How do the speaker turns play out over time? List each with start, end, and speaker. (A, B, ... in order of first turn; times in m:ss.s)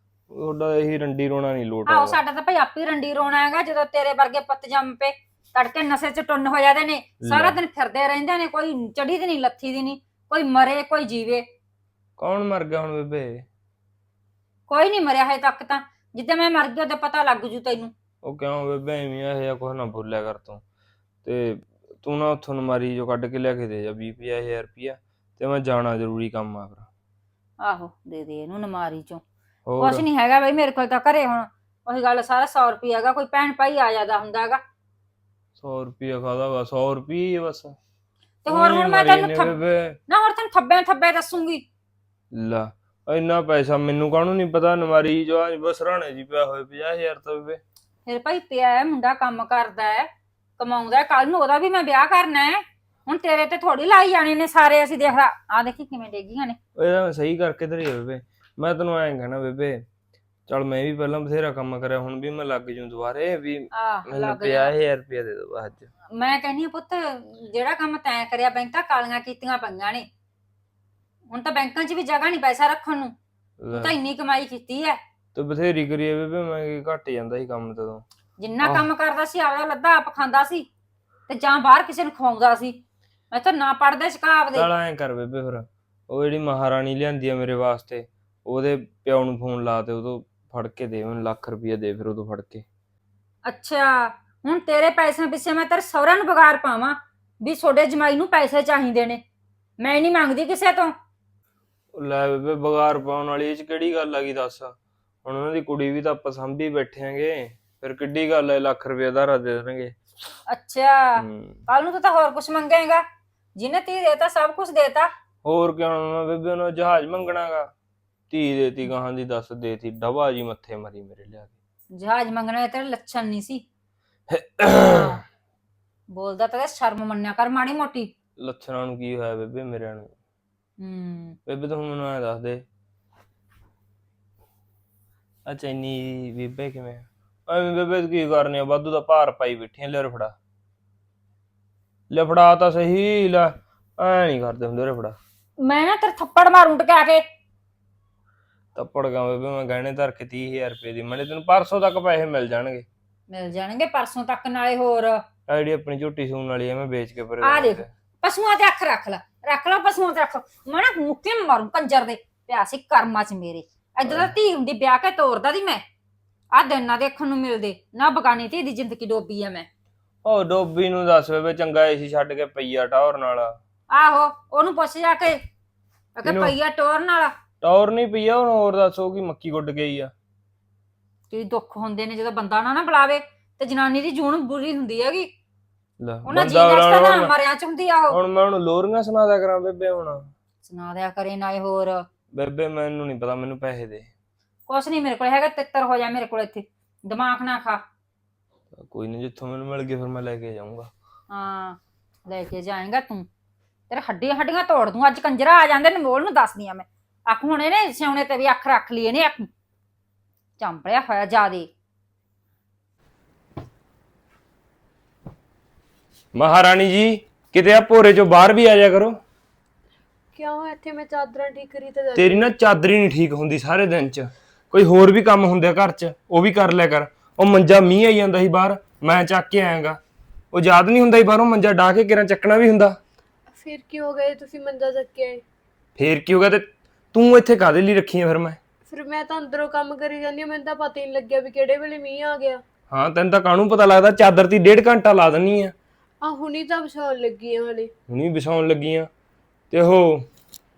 0:00.3-0:02.2 A
0:01.9-0:11.5 B
0:07.2-0:07.6 A
0:12.2-0:13.4 A
0:14.7-0:17.9 B
0:18.2-0:20.6 A
0:21.2-0:26.9 A
0:27.6-0:29.2 B
0:29.6-0:30.0 A
0:29.8-0:34.6 B
0:35.6-0:37.8 A
0:38.4-0:39.6 B
0:38.5-0:40.0 A
0:40.1-0:41.6 B
0:42.3-0:47.6 A
0:48.0-0:56.6 B
0:56.8-0:59.8 A
1:00.5-1:05.9 A
1:03.7-1:04.7 B
1:06.1-1:10.1 B
1:11.3-1:13.2 B
1:13.6-1:13.9 A
1:13.7-1:15.0 B
1:15.3-1:18.0 A
1:18.4-1:20.7 B
1:18.6-1:18.9 A
1:21.3-1:22.8 B
1:23.3-1:24.7 B
1:24.5-1:32.6 A
1:33.4-1:39.2 B
1:39.8-1:40.9 B
1:41.9-1:50.0 A
1:50.5-1:53.0 B
1:51.2-1:51.6 A
1:53.6-1:55.1 B
1:55.4-1:57.7 A
1:58.3-2:01.5 A
2:01.9-2:03.6 B
2:04.3-2:05.2 A
2:04.8-2:05.2 B
2:06.1-2:08.1 B
2:08.4-2:10.1 A
2:10.8-2:11.4 B
2:11.5-2:12.6 A
2:15.4-2:20.3 A
2:22.1-2:25.2 A
2:25.6-2:27.2 B
2:28.7-2:32.8 A
2:33.3-2:35.2 B
2:35.5-2:37.9 A
2:37.4-2:45.8 B
2:44.0-2:44.3 A
2:46.5-2:49.7 B
2:50.2-2:53.6 A
2:53.9-2:55.4 B
2:56.2-2:57.3 B
2:56.2-2:56.6 A
2:57.6-3:00.1 A
3:01.3-3:05.3 B
3:06.0-3:07.3 A
3:06.3-3:08.2 B
3:08.1-3:10.3 A
3:10.6-3:12.1 B
3:12.3-3:14.1 A
3:14.7-3:17.8 B
3:18.7-3:20.9 A
3:21.3-3:23.3 B
3:23.9-3:29.5 B
3:30.6-3:31.7 B
3:36.3-3:39.2 A
3:40.3-3:42.5 C
3:42.1-3:50.0 A
3:50.5-3:53.0 A
3:53.5-3:55.4 C
3:56.0-3:58.6 A
3:58.9-4:02.6 C
4:02.9-4:05.7 A
4:06.2-4:07.9 C
4:08.1-4:09.1 A
4:09.7-4:10.2 A